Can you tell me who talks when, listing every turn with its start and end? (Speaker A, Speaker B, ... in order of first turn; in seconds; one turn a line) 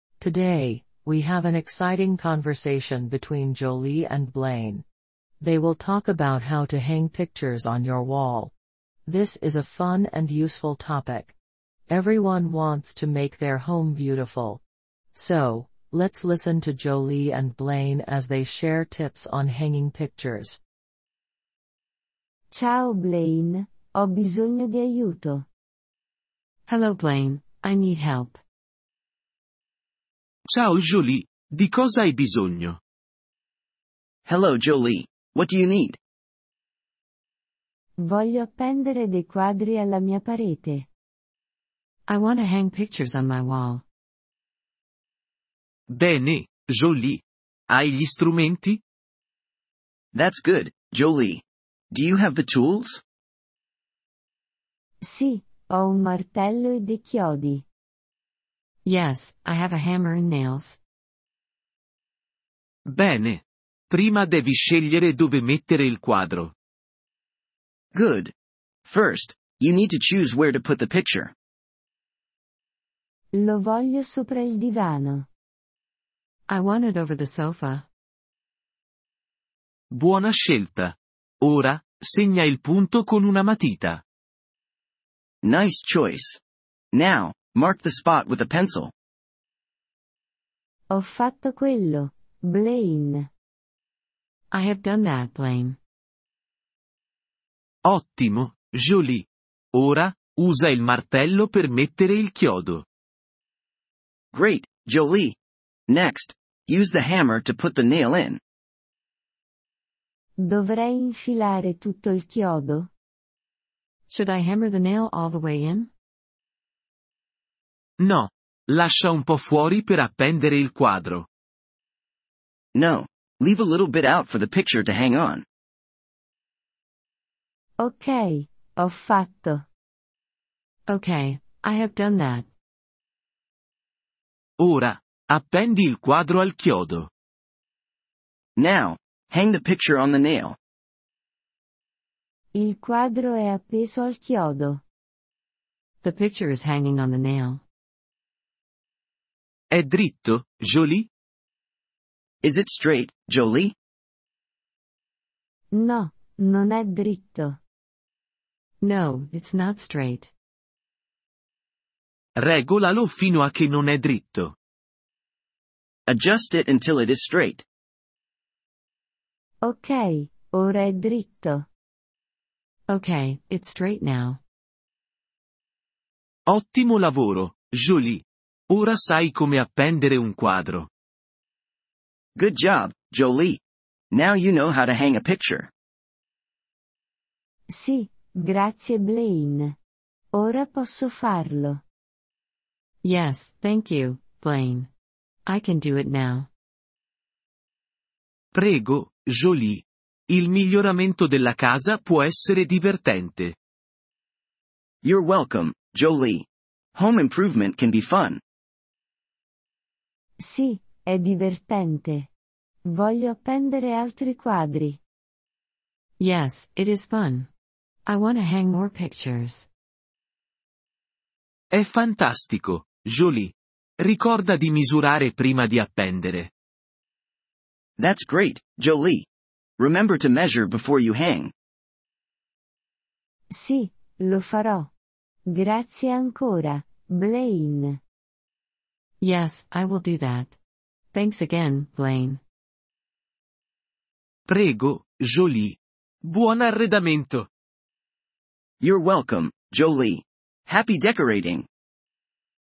Speaker A: 0.2-4.8
Speaker A: 5.4-8.5
Speaker A: 9.0-11.3
Speaker A: 11.9-14.6
Speaker A: 15.1-20.6
Speaker B: 22.5-25.4
Speaker C: 26.7-28.4
Speaker D: 30.5-32.8
Speaker E: 34.2-36.0
Speaker B: 38.0-40.9
Speaker C: 42.1-43.8
Speaker D: 45.9-48.8
Speaker E: 50.1-53.0
Speaker B: 55.0-57.6
Speaker C: 58.8-60.8
Speaker D: 62.9-66.5
Speaker E: 67.9-68.3
Speaker E: 68.8-71.3
Speaker B: 73.3-75.2
Speaker C: 76.5-77.9
Speaker D: 79.9-84.0
Speaker E: 85.4-86.4
Speaker E: 86.9-88.9
Speaker B: 90.9-93.3
Speaker C: 94.5-95.8
Speaker D: 97.8-102.8
Speaker E: 104.3-108.4
Speaker B: 110.4-112.9
Speaker C: 114.1-115.9
Speaker D: 118.0-121.3
Speaker E: 122.7-125.4
Speaker B: 127.8-129.7
Speaker C: 130.9-132.5
Speaker D: 134.6-137.1
Speaker E: 138.6-140.6
Speaker B: 142.5-144.8
Speaker C: 146.0-147.6
Speaker D: 149.7-151.1
Speaker E: 152.4-153.7
Speaker B: 155.7-157.6
Speaker C: 158.8-160.3
Speaker D: 162.3-164.6
Speaker E: 166.1-167.6
Speaker B: 169.6-171.6
Speaker C: 172.9-174.4
Speaker D: 176.5-180.9
Speaker E: 182.3-183.6
Speaker E: 184.1-185.7
Speaker B: 187.7-189.8
Speaker B: 190.3-191.8
Speaker C: 193.0-194.9
Speaker C: 195.4-196.5
Speaker D: 198.5-203.6
Speaker E: 205.0-208.4
Speaker B: 210.4-212.3
Speaker B: 212.9-215.0
Speaker C: 216.2-217.5
Speaker C: 218.1-219.7
Speaker D: 221.7-226.5
Speaker E: 228.0-229.3
Speaker E: 229.8-231.5
Speaker B: 233.5-234.9
Speaker B: 235.5-238.0
Speaker C: 239.2-240.6
Speaker C: 241.1-242.4
Speaker D: 244.5-247.5
Speaker E: 248.8-251.7